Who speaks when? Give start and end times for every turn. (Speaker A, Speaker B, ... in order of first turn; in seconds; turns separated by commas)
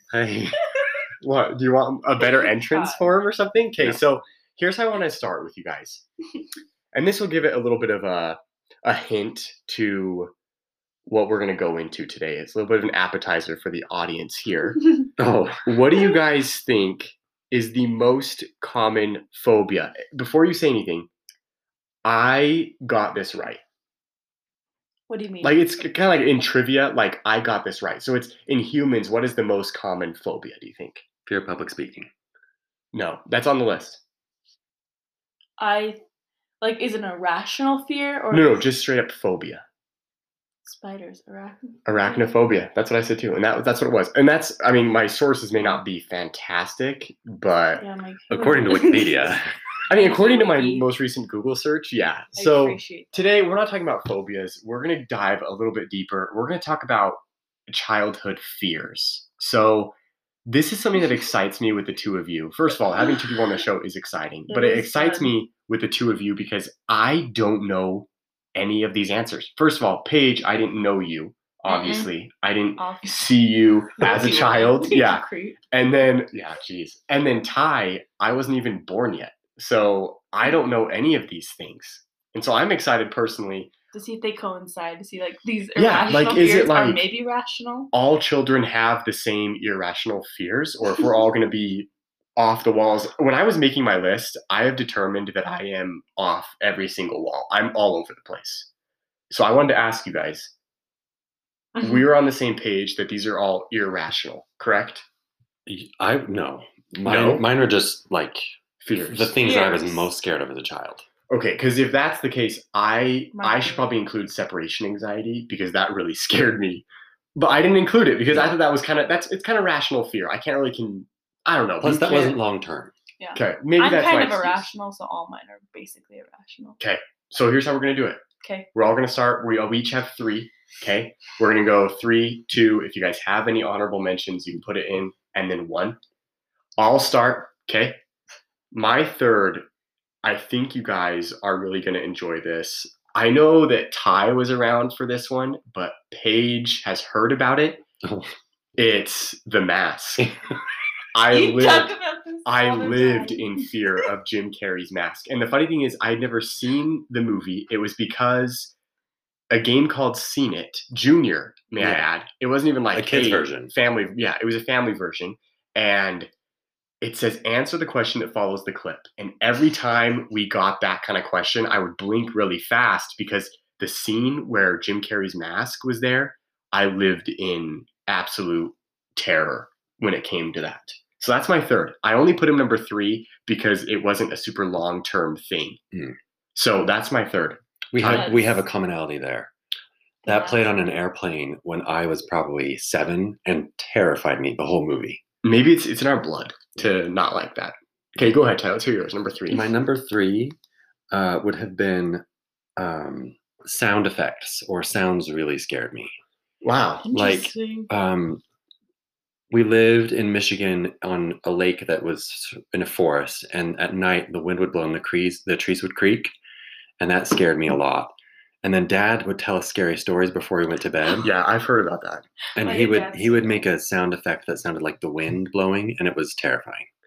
Speaker A: 0.1-0.6, Speaker B: 1.2-6.0, Speaker C: 2.2-3.1, Speaker B: 6.9-10.3, Speaker B: 11.1-14.9, Speaker A: 15.2-15.8, Speaker B: 15.7-21.1, Speaker B: 22.0-23.6, Speaker C: 25.1-25.7, Speaker B: 25.4-31.0, Speaker A: 31.3-32.1, Speaker B: 32.9-34.0, Speaker C: 35.6-36.0, Speaker C: 36.6-38.6, Speaker B: 38.3-39.6, Speaker C: 40.6-42.4, Speaker B: 41.9-47.8, Speaker C: 47.8-50.9, Speaker A: 48.3-49.5, Speaker B: 49.9-83.7, Speaker C: 52.3-53.2, Speaker C: 64.5-65.3, Speaker C: 71.7-72.1, Speaker C: 72.8-73.3, Speaker C: 74.0-75.6, Speaker C: 83.9-87.9, Speaker B: 85.8-87.0, Speaker B: 87.9-98.7, Speaker B: 99.3-100.5, Speaker C: 101.8-102.1, Speaker B: 101.8-105.0, Speaker A: 105.7-111.1, Speaker B: 107.0-107.5, Speaker B: 108.8-109.4, Speaker C: 109.4-110.1, Speaker B: 111.3-122.4, Speaker C: 113.3-113.9, Speaker A: 121.8-122.9, Speaker C: 122.1-122.4, Speaker C: 123.2-126.8, Speaker B: 123.3-124.7, Speaker B: 126.8-128.2, Speaker C: 128.4-128.7, Speaker B: 128.7-136.0, Speaker B: 136.8-138.0, Speaker B: 138.7-139.6, Speaker B: 140.2-147.8, Speaker A: 148.0-148.3, Speaker B: 148.8-150.3, Speaker B: 151.2-151.9, Speaker C: 151.3-154.1, Speaker B: 152.5-158.7, Speaker B: 159.5-166.3, Speaker A: 161.8-162.1, Speaker A: 162.9-163.7, Speaker B: 167.0-185.8, Speaker B: 186.5-188.6, Speaker A: 187.9-189.5, Speaker C: 188.0-188.5, Speaker C: 190.2-190.7, Speaker A: 190.2-195.2, Speaker B: 195.4-199.7, Speaker A: 199.5-200.6, Speaker A: 201.1-202.2, Speaker A: 202.8-206.1, Speaker B: 206.6-207.1, Speaker C: 207.0-207.9, Speaker A: 207.1-208.4, Speaker A: 209.5-216.3, Speaker A: 217.0-221.3, Speaker B: 221.2-222.2, Speaker A: 222.6-226.8, Speaker C: 222.6-223.7